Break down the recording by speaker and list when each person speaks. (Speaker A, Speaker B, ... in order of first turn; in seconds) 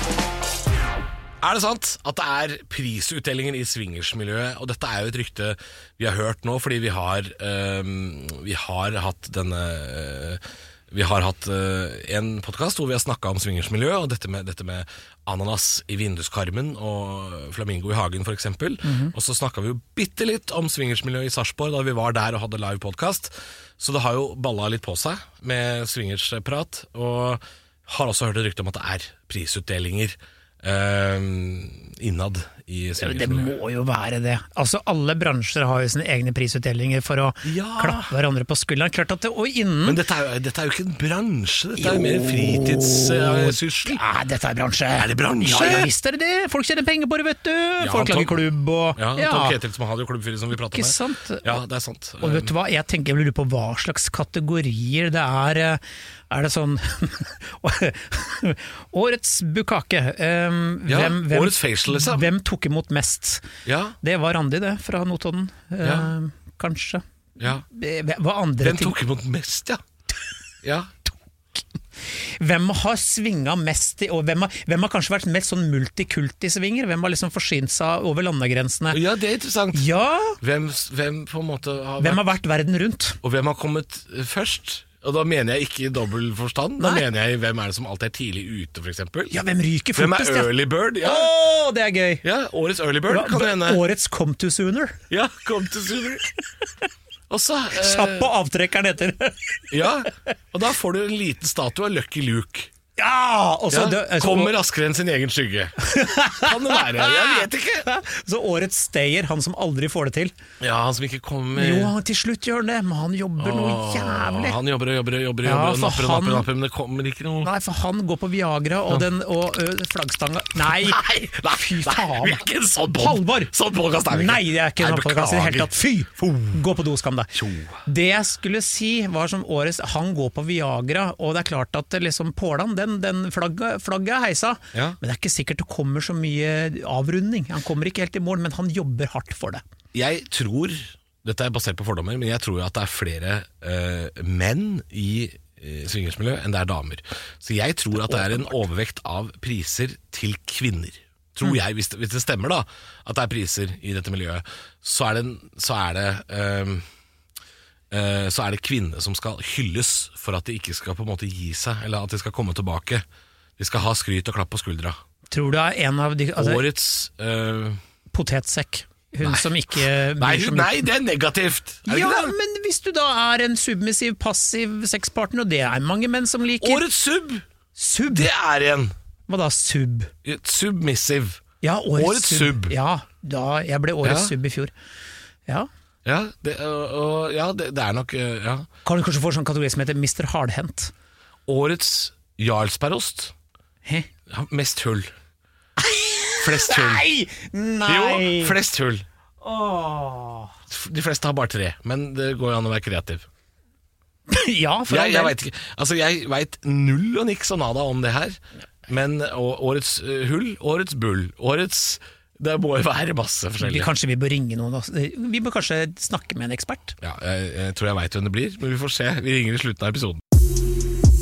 Speaker A: 1.4-33.5, 37.4-38.1, 39.9-44.0, 45.0-45.9, 47.8-52.5, 60.9-62.3, 63.6-64.0, 65.8-66.1, 67.4-67.6, 68.6-69.8, 70.6-70.9, 78.9-79.8, 80.4-82.4, 83.2-89.3, 89.9-91.3, 92.2-93.8, 95.1-96.3, 97.3-98.3, 99.7-102.7, 103.7-105.8, 106.4-107.9, 110.6-111.9, 113.4-117.5, 120.6-125.7, 127.3-127.8, 139.9-156.8, 157.9-163.0, 163.6-165.0, 166.4-167.8, 169.2-172.3, 176.6-177.4, 178.1-178.9, 180.2-181.4, 182.0-182.8, 184.0-184.3, 186.1-188.7, 191.5-193.3, 194.3-195.1, 196.4-197.1, 197.9-199.1, 200.7-203.3, 204.9-213.9, 217.0-220.2
Speaker B: 18.8-19.1, 33.0-40.0, 41.8-42.1, 43.0-49.6, 50.5-51.6, 52.2-63.5, 64.0-69.0, 72.2-79.0, 79.7-80.4, 82.0-83.2, 86.8-87.0, 89.3-92.2, 93.1-95.0, 97.8-100.0, 103.0-104.6, 105.8-110.3, 111.6-114.6, 115.4-116.5, 117.4-122.4, 123.0-123.5, 124.1-139.6, 148.0-148.7, 165.3-166.6, 168.1-170.9, 171.9-176.8, 177.8-178.3, 179.3-180.1, 181.6-184.7, 188.8-190.9, 195.8-198.6, 199.4-200.6, 204.3-205.4, 213.6-217.0